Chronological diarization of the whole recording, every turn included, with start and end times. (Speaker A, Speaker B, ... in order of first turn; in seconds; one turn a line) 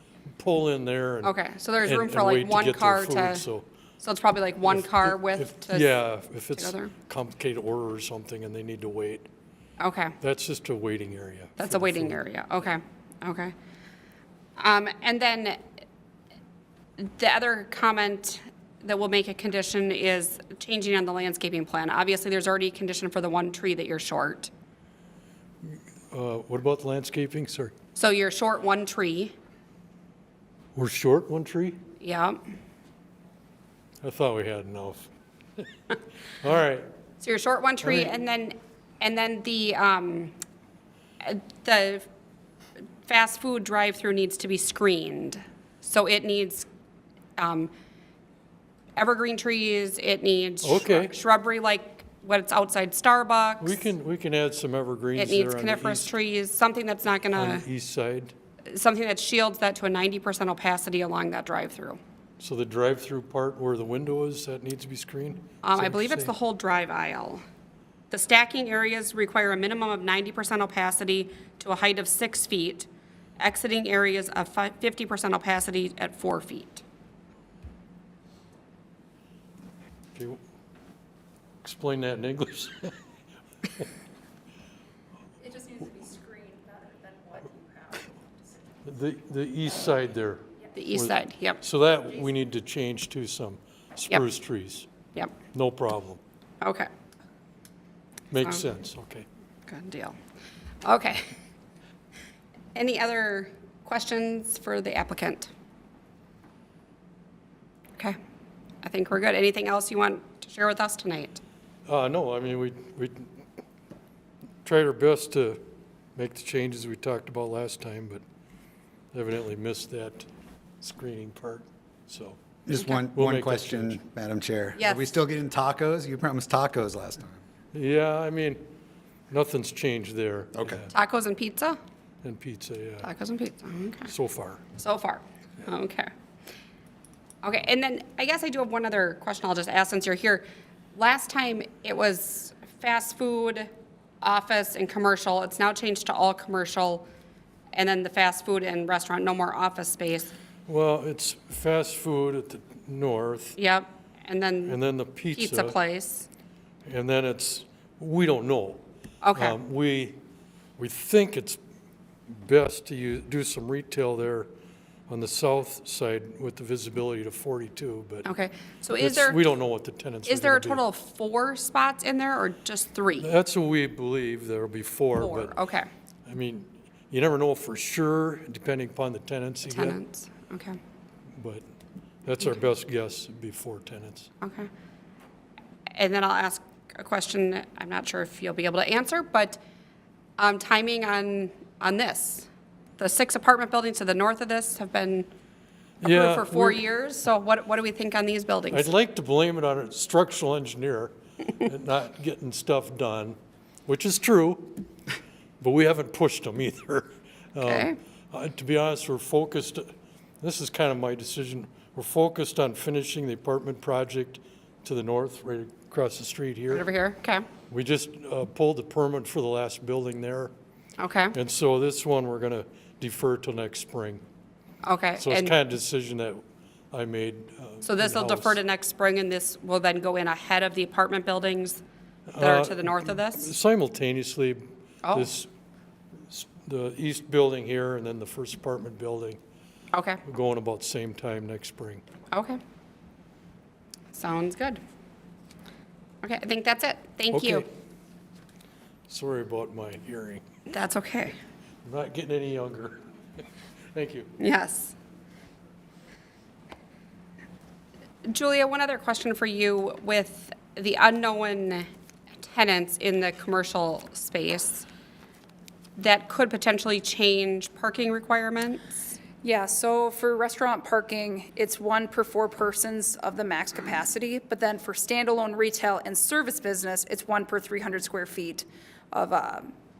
Speaker A: 0.3-3.7
Speaker B: 1.2-3.5
Speaker B: 4.0-6.0
Speaker A: 4.7-9.3
Speaker B: 6.5-6.9
Speaker B: 9.8-10.2
Speaker A: 10.2-12.2
Speaker B: 11.6-13.5
Speaker B: 14.6-15.6
Speaker B: 17.0-24.5
Speaker A: 25.6-27.7
Speaker B: 27.9-29.3
Speaker A: 30.7-31.8
Speaker B: 32.0-32.4
Speaker A: 34.0-35.7
Speaker A: 36.4-36.9
Speaker B: 37.2-40.3
Speaker A: 37.8-38.1
Speaker B: 41.2-42.0
Speaker B: 43.0-46.7
Speaker B: 47.4-47.7
Speaker B: 49.0-53.8
Speaker A: 50.6-51.1
Speaker A: 53.6-56.1
Speaker B: 55.1-57.6
Speaker A: 57.3-58.3
Speaker B: 58.7-62.0
Speaker A: 62.4-66.3
Speaker B: 65.6-67.4
Speaker B: 68.1-72.9
Speaker B: 73.4-76.8
Speaker A: 80.1-80.4
Speaker A: 81.6-83.0
Speaker C: 85.4-88.1
Speaker A: 88.8-94.9
Speaker B: 90.7-91.6
Speaker A: 95.5-96.2
Speaker B: 96.6-96.9
Speaker A: 98.3-99.2
Speaker B: 99.7-100.2
Speaker B: 100.8-101.2
Speaker B: 102.7-105.5
Speaker B: 108.8-111.4
Speaker A: 111.8-113.3
Speaker A: 114.6-115.6
Speaker A: 116.2-118.2
Speaker A: 119.1-120.3
Speaker A: 120.8-122.4
Speaker D: 122.7-127.4
Speaker A: 123.1-124.0
Speaker B: 124.8-125.1
Speaker A: 127.7-128.6
Speaker A: 129.3-130.9
Speaker D: 130.5-130.8
Speaker B: 130.9-131.8
Speaker A: 132.2-133.1
Speaker B: 133.0-134.1
Speaker A: 134.1-134.6
Speaker B: 134.8-136.1
Speaker B: 137.4-140.4
Speaker B: 140.9-143.7
Speaker B: 144.2-147.1
Speaker B: 147.7-150.3
Speaker A: 150.7-153.6
Speaker B: 153.6-154.8
Speaker A: 154.7-155.8
Speaker B: 155.3-156.3
Speaker A: 156.8-158.8
Speaker B: 159.2-159.6
Speaker A: 159.3-160.2
Speaker A: 160.8-161.6
Speaker A: 162.3-164.5
Speaker A: 165.1-168.2
Speaker B: 168.2-169.4
Speaker A: 169.0-170.8
Speaker B: 170.2-173.3
Speaker A: 173.2-175.5
Speaker B: 175.2-175.9
Speaker A: 176.2-180.0
Speaker B: 179.7-180.8
Speaker A: 181.4-181.6
Speaker A: 182.2-184.3
Speaker B: 184.4-184.7
Speaker B: 185.9-189.6
Speaker B: 190.4-195.3
Speaker A: 196.0-196.8
Speaker B: 196.0-198.9
Speaker A: 198.7-204.8
Speaker A: 205.6-216.8
Speaker B: 207.6-208.0
Speaker B: 216.7-217.5
Speaker A: 217.7-220.5
Speaker B: 221.0-221.3
Speaker A: 221.3-224.2
Speaker B: 224.8-225.5
Speaker A: 225.2-228.6
Speaker B: 227.8-231.8
Speaker A: 232.3-235.5
Speaker B: 232.4-233.5
Speaker A: 236.3-239.4
Speaker B: 239.9-240.2
Speaker A: 240.2-242.0
Speaker B: 242.3-242.6
Speaker B: 244.1-244.8
Speaker B: 246.2-247.7
Speaker A: 247.3-247.7
Speaker A: 249.1-250.4
Speaker B: 250.7-251.3
Speaker A: 251.8-253.0
Speaker A: 253.9-254.3
Speaker B: 254.4-254.9
Speaker B: 258.2-261.9
Speaker B: 262.4-264.9
Speaker B: 265.9-269.1
Speaker C: 269.4-279.7